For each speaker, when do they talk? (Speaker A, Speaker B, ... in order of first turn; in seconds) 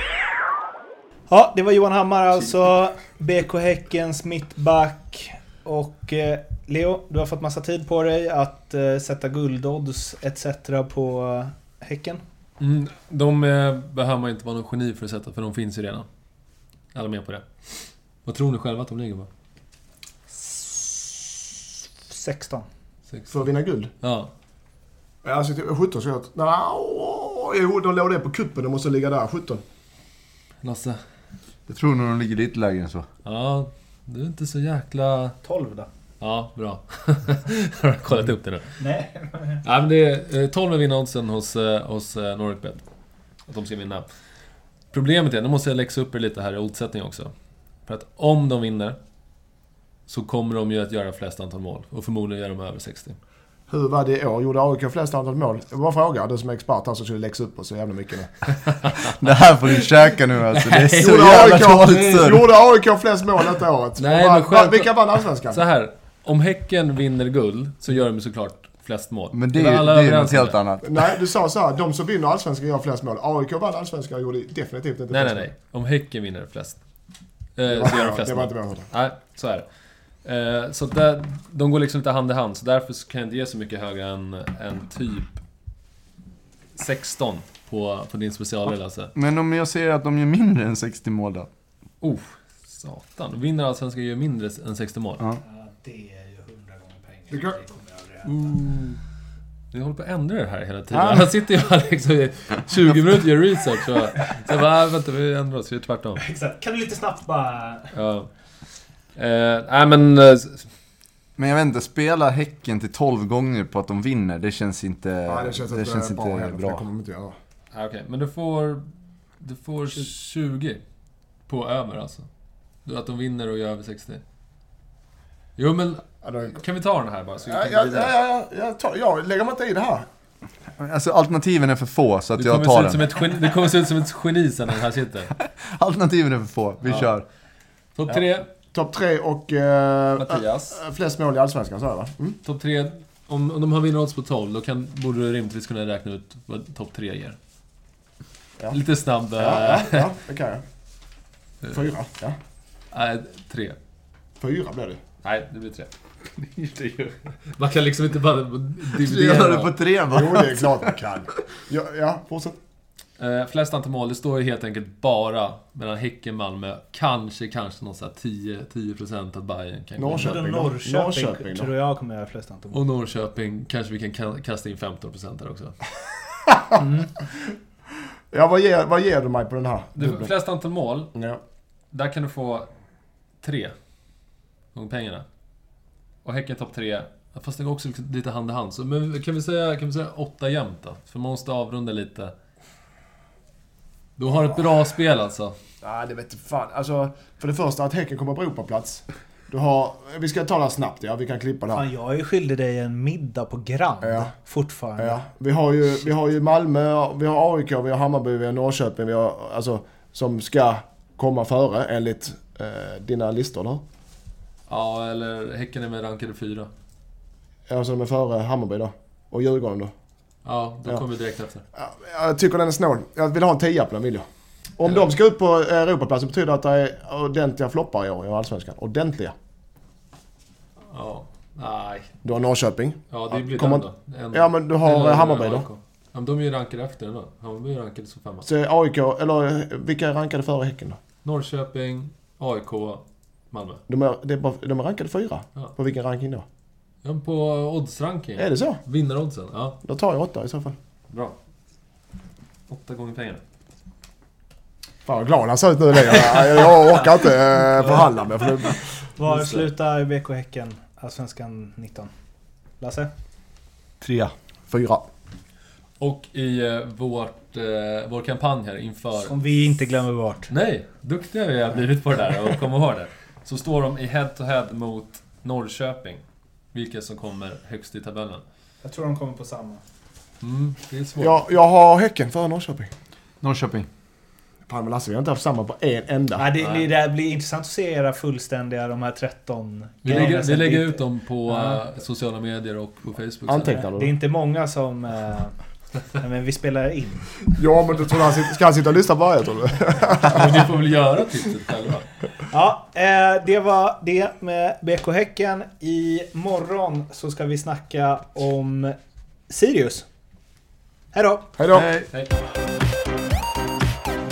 Speaker A: 1.3-12.2, 20.3-21.3, 22.1-22.7, 35.4-35.9, 38.8-39.6, 95.4-98.5, 106.2-107.9, 170.1-172.8, 176.8-177.2, 201.7-205.2, 259.2-262.1, 262.8-263.1, 269.2-270.5, 278.8-279.8, 286.4-291.8, 293.7-295.5, 296.1-297.5, 302.5-308.9, 309.5-310.1, 311.1-311.6
Speaker B: 12.6-16.1, 16.9-19.3, 23.1-23.3, 24.0-24.3, 30.6-31.0, 33.2-35.4, 36.2-38.6, 39.6-42.9, 43.5-44.1, 44.9-47.3, 47.9-49.0, 50.1-53.2, 60.5-62.3, 64.0-70.6, 75.1-76.8, 77.5-79.7, 80.2-85.4, 86.7-89.1, 92.0-95.2, 98.2-99.0, 99.7-106.2, 107.9-108.3, 109.2-110.7, 117.7-118.8, 119.4-120.8, 121.5-122.3, 122.8-124.2, 125.6-128.1, 132.4-135.3, 136.8-137.1, 137.9-138.5, 140.2-140.8, 142.4-147.4, 148.7-150.1, 152.9-153.8, 155.2-159.8, 163.2-170.4, 172.7-175.8, 179.9-181.1, 181.9-182.7, 183.4-183.7, 184.7-185.2, 186.2-192.3, 194.2-195.5, 214.7-216.7, 220.4-221.6, 230.9-232.1, 233.1-238.5, 241.2-243.8, 247.0-249.8, 251.1-251.3, 252.7-253.4, 256.2-257.1, 257.7-258.1, 259.2-259.7, 266.0-269.4, 270.5-276.2, 276.7-278.4, 280.4-281.4, 286.6-286.9, 290.0-293.8, 300.2-302.1
Speaker C: 23.3-23.9, 25.2-29.6, 53.7-58.4, 61.0-65.6, 70.8-75.5, 77.7-78.9, 97.3-97.6, 115.3-117.3, 126.2-126.6, 127.4-130.1, 138.7-142.4, 149.3-150.6, 151.7-152.4, 154.4-155.0, 160.1-162.6, 170.0-171.7, 176.5-176.8, 178.3-180.3, 181.1-181.4, 195.8-201.8, 204.0-204.3, 205.0-213.8, 217.7-219.9, 221.7-224.2, 224.8-229.3, 232.2-235.7, 238.4-241.0, 243.9-246.4, 248.4-248.8, 249.8-250.8, 255.1-258.8, 264.0-265.1, 281.2-282.9, 284.7-286.5, 293.5-294.2, 297.5-300.7, 311.6-311.9
Speaker D: 31.7-33.0, 59.2-62.5, 69.3-70.8, 89.1-91.5, 100.9-101.2, 111.4-116.8, 130.8-133.0, 135.6-137.2, 159.0-160.8, 283.4-283.9, 311.7-312.1